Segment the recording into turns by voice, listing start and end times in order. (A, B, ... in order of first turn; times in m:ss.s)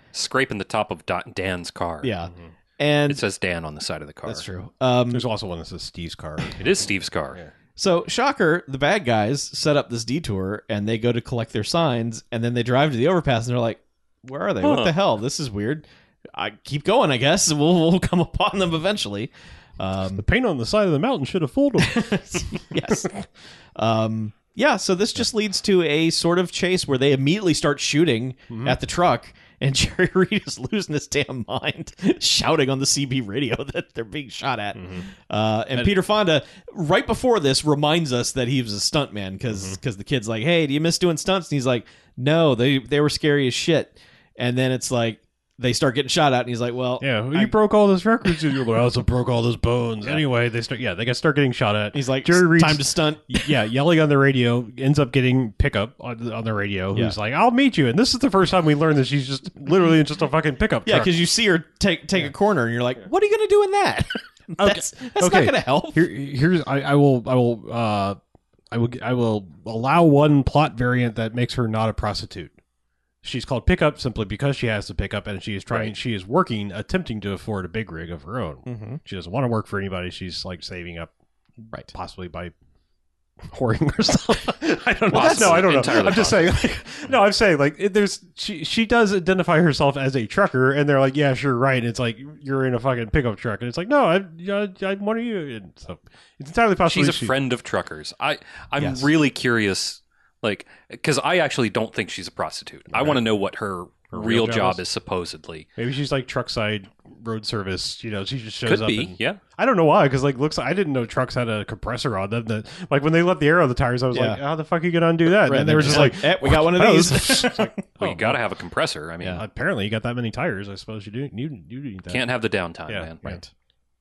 0:00.1-0:02.1 A
0:02.0-0:03.2 B
0:03.1-0:04.5 A
0:04.2-0:05.2 B
0:05.1-0:06.6 C
0:06.5-0:07.4 A
0:07.8-0:20.2 B
0:14.6-0:14.9 A
0:20.2-0:23.1 C
0:21.8-0:23.2 B
0:23.7-0:47.5 B
0:28.5-0:28.8 C
0:34.8-0:35.1 C
0:39.5-0:39.8 C
0:47.0-1:01.1 C
0:51.9-0:53.5 B
1:00.8-1:06.0 B
1:04.6-1:08.2 C
1:08.7-1:12.5 C
1:13.2-1:21.1 C
1:18.6-1:19.0 B
1:21.9-1:22.5 C
1:23.5-1:37.3 C
1:25.1-1:26.2 B
1:25.1-1:26.4 A
1:36.9-1:45.7 A
1:38.8-1:39.1 B
1:42.9-1:43.2 C
1:44.1-1:44.8 C
1:45.8-1:58.4 C
1:48.6-1:49.4 A
1:54.1-1:54.4 B
1:55.4-1:57.8 B
1:58.0-1:59.4 A
1:59.4-2:02.2 C
2:02.1-2:03.4 A
2:02.9-2:03.4 C